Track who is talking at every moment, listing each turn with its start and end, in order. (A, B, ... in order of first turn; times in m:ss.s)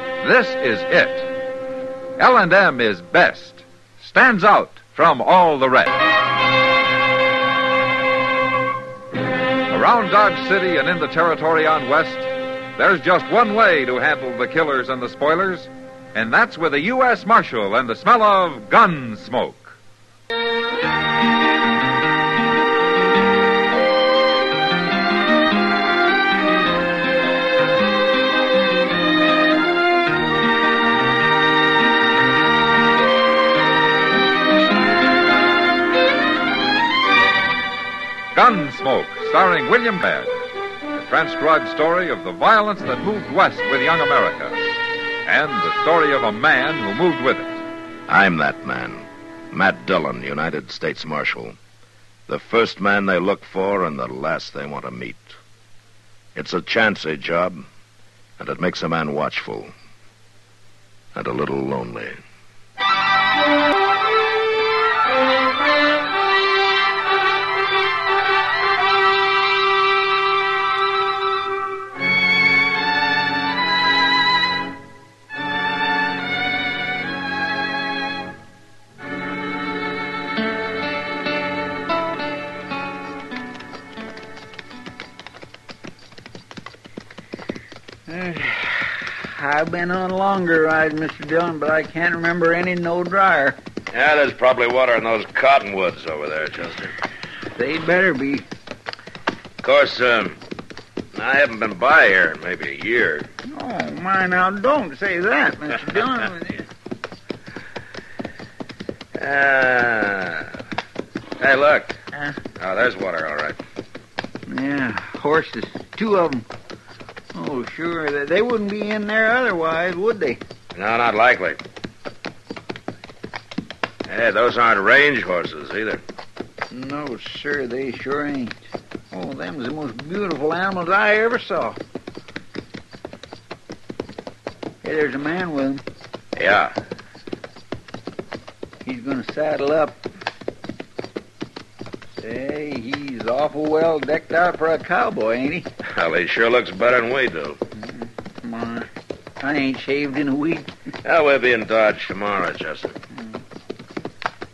0:00.2-0:01.3 A
0:02.2-0:06.0 A
0:09.7-0:19.8 A
0:38.3-0:40.3 A
0:40.9-0:44.7 A
0:45.2-0:47.6 A
0:48.1-0:51.6 B
0:52.3-0:55.4 B
0:56.3-0:57.6 B
0:58.4-0:59.7 B
1:01.2-1:02.2 B
1:28.1-1:33.6 C
1:33.9-1:36.9 B
1:37.6-1:38.4 C
1:39.6-1:40.4 B
1:41.1-1:43.3 B
1:43.4-1:46.6 C
1:49.2-1:50.6 B
1:51.4-1:52.0 B
1:52.6-1:53.6 B
1:54.5-1:56.5 C
1:57.3-2:00.4 C
2:00.8-2:01.6 B
2:04.0-2:06.0 B
2:06.7-2:11.8 C
2:14.8-2:15.8 C
2:16.3-2:16.8 B
2:18.8-2:20.0 C
2:22.2-2:25.7 C
2:25.8-2:27.6 B
2:28.4-2:28.9 C
2:29.4-2:30.7 C
2:31.0-2:33.0 B